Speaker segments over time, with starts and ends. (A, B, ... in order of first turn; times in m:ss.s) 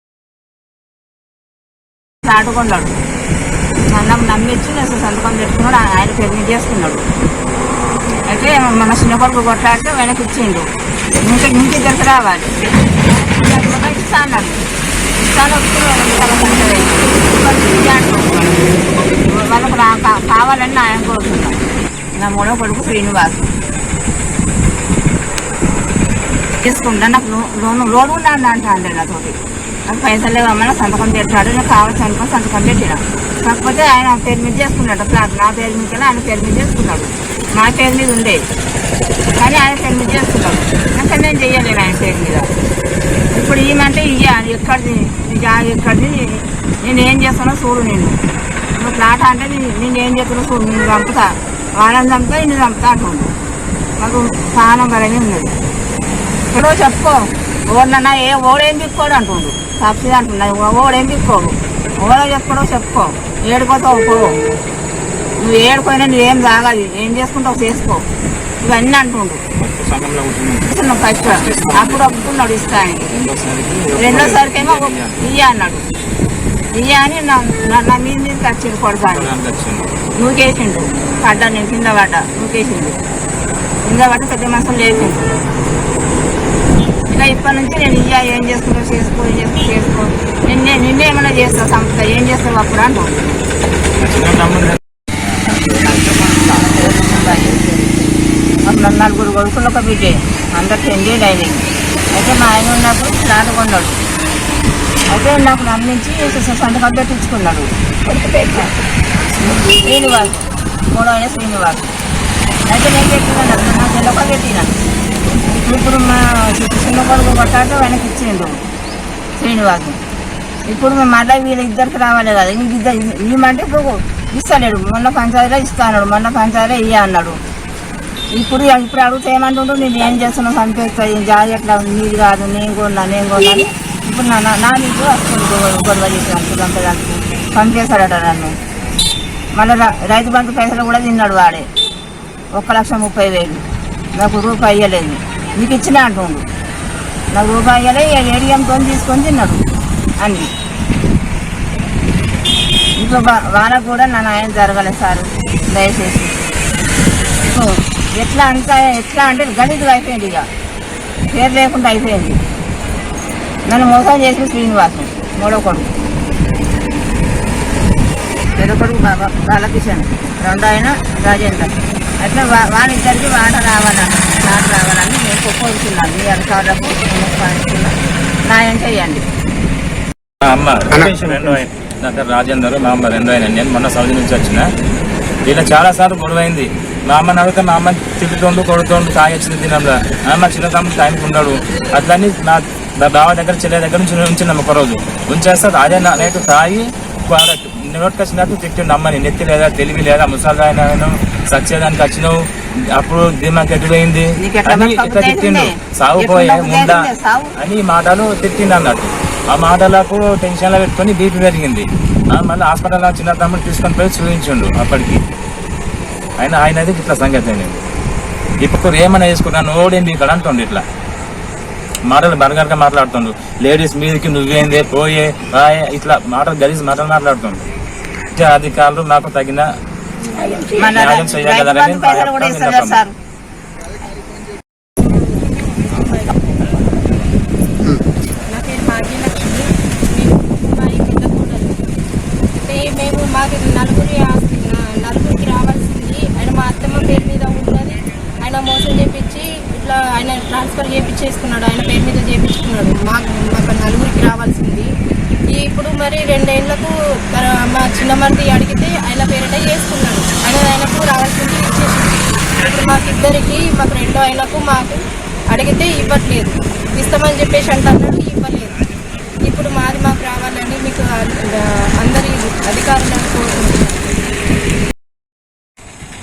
0:02.3-0:03.0 A
0:03.9-0:07.0 A
0:08.3-0:10.7 A
0:11.2-0:12.6 A
0:13.1-0:14.6 A
0:15.2-0:21.6 A
0:22.2-0:23.6 A
0:26.6-0:29.4 A
0:29.9-0:38.4 A
0:39.4-0:42.5 A
0:43.3-0:48.2 A
0:48.8-0:53.3 A
0:54.0-0:55.5 A
0:56.5-1:04.4 A
1:05.4-1:08.0 A
1:08.6-1:09.4 A
1:09.6-1:10.7 B
1:10.7-1:13.1 A
1:11.2-1:12.2 B
1:13.1-1:15.2 B
1:14.0-1:15.8 A
1:16.7-1:19.3 A
1:19.1-1:19.9 B
1:20.2-1:23.0 A
1:23.8-1:25.3 A
1:27.1-1:33.4 A
1:34.0-1:34.8 B
1:35.5-1:35.8 B
1:36.3-1:37.7 A
1:38.7-1:44.0 A
1:45.1-1:48.7 A
1:49.4-1:51.9 A
1:52.7-1:54.7 A
1:55.5-1:58.6 A
1:59.4-2:00.0 A
2:00.7-2:07.4 A
2:08.4-2:18.5 A
2:19.6-2:21.7 A
2:22.6-2:23.6 A
2:24.2-2:26.4 A
2:27.3-2:29.6 A
2:30.2-2:30.5 A
2:33.0-2:36.4 A
2:37.4-2:40.5 A
2:41.3-2:42.4 A
2:43.7-2:45.9 A
2:48.6-2:57.9 A
2:58.5-2:59.2 A
3:00.4-3:04.6 B
3:05.5-3:22.4 B
3:23.0-3:35.2 B
3:24.4-3:27.5 A
3:36.4-3:37.8 B
3:38.6-3:40.8 B
3:42.1-3:47.6 B
3:48.4-3:49.7 B
3:50.8-3:53.1 A
3:50.8-3:53.0 B
3:55.1-4:01.8 C
4:02.4-4:14.9 C
4:15.5-4:28.8 C
4:29.4-4:34.3 C